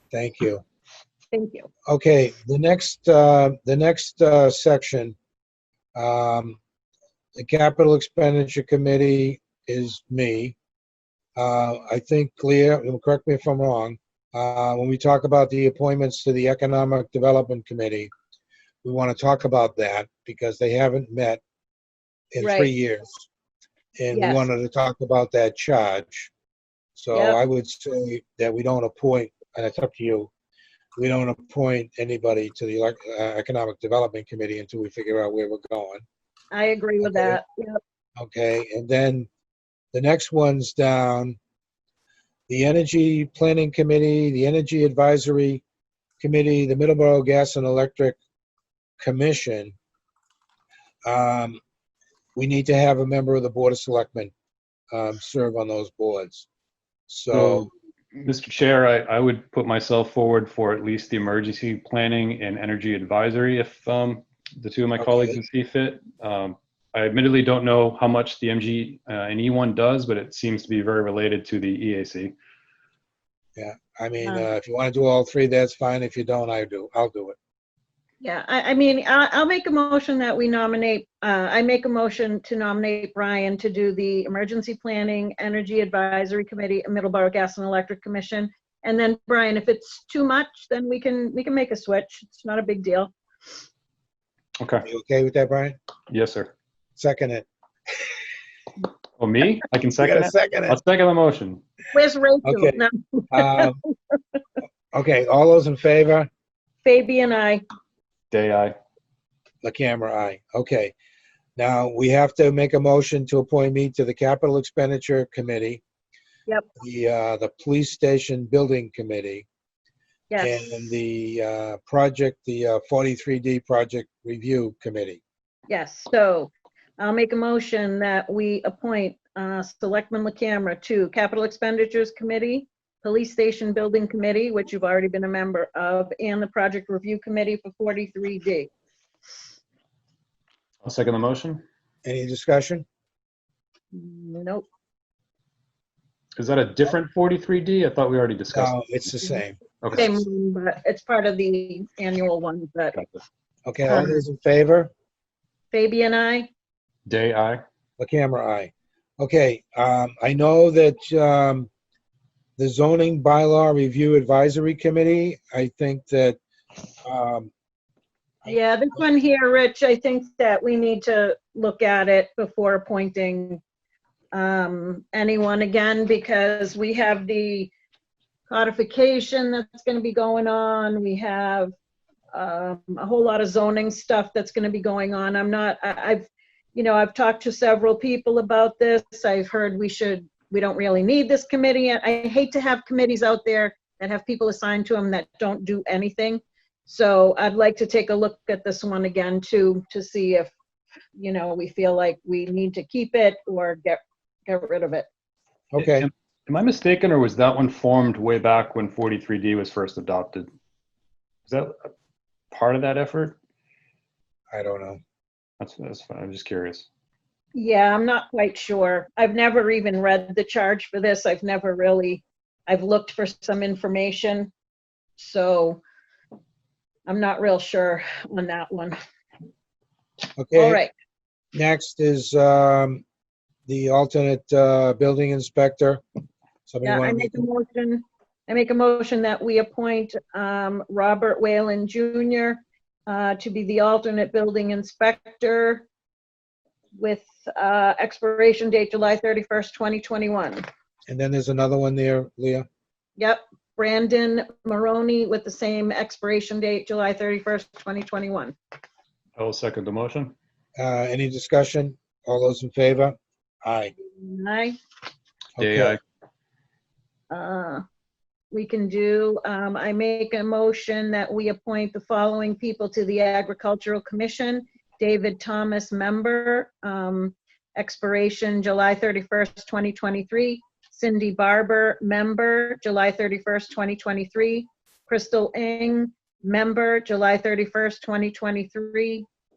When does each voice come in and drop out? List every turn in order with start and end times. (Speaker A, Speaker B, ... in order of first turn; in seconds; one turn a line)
Speaker A: 0.1-0.6
Speaker B: 1.3-1.7
Speaker A: 1.9-5.2
Speaker A: 6.0-6.6
Speaker A: 7.4-10.6
Speaker A: 11.4-18.1
Speaker A: 18.8-21.4
Speaker A: 22.3-23.3
Speaker B: 22.4-22.7
Speaker A: 24.0-26.3
Speaker B: 24.1-24.5
Speaker A: 27.0-30.3
Speaker B: 27.1-27.4
Speaker A: 31.0-36.0
Speaker B: 36.5-37.8
Speaker A: 37.0-37.4
Speaker A: 38.2-39.3
Speaker A: 39.9-41.4
Speaker A: 42.5-45.6
Speaker A: 46.2-48.2
Speaker A: 49.0-49.8
Speaker A: 51.1-51.6
Speaker A: 52.4-54.3
Speaker A: 54.9-56.5
Speaker A: 57.1-57.7
Speaker C: 57.3-72.3
Speaker A: 65.0-65.4
Speaker A: 73.6-77.4
Speaker B: 74.2-74.5
Speaker B: 78.2-93.1
Speaker C: 94.6-94.8
Speaker A: 94.8-95.8
Speaker C: 96.1-96.5
Speaker A: 97.0-97.5
Speaker C: 99.2-101.6
Speaker A: 100.0-100.8
Speaker B: 101.9-103.9
Speaker A: 102.4-103.8
Speaker A: 104.9-106.3
Speaker B: 106.8-107.6
Speaker C: 108.3-108.8
Speaker A: 109.6-110.9
Speaker A: 111.6-115.8
Speaker A: 116.8-119.5
Speaker B: 120.3-120.6
Speaker A: 120.4-125.2
Speaker B: 125.7-138.7
Speaker C: 140.8-141.6
Speaker A: 142.0-142.8
Speaker B: 143.9-144.7
Speaker C: 146.4-148.9
Speaker A: 148.5-149.9
Speaker C: 149.8-150.1
Speaker B: 149.9-153.0
Speaker A: 153.7-154.9
Speaker B: 153.9-154.2
Speaker B: 155.7-156.5
Speaker C: 157.1-157.6
Speaker A: 158.0-161.7
Speaker A: 162.6-166.4
Speaker A: 167.0-167.5
Speaker B: 168.5-173.6
Speaker B: 174.3-177.7
Speaker B: 178.5-181.7
Speaker B: 182.3-200.5
Speaker B: 201.2-205.1
Speaker A: 205.7-206.1
Speaker C: 205.8-210.5
Speaker C: 211.5-211.8
Speaker C: 212.5-213.4
Speaker A: 214.5-215.0
Speaker C: 215.6-216.9
Speaker B: 217.6-224.5
Speaker B: 225.2-225.8
Speaker B: 227.1-229.0
Speaker A: 230.4-230.8
Speaker B: 230.6-230.9
Speaker A: 231.5-233.0
Speaker A: 233.7-236.0
Speaker A: 236.7-237.4
Speaker B: 236.8-245.9
Speaker B: 246.9-250.7
Speaker A: 251.1-252.7
Speaker B: 253.2-258.6
Speaker C: 259.4-260.4
Speaker A: 260.8-263.9
Speaker B: 264.0-264.8
Speaker A: 265.6-266.0
Speaker C: 265.6-266.0
Speaker B: 267.3-267.8
Speaker B: 268.5-289.3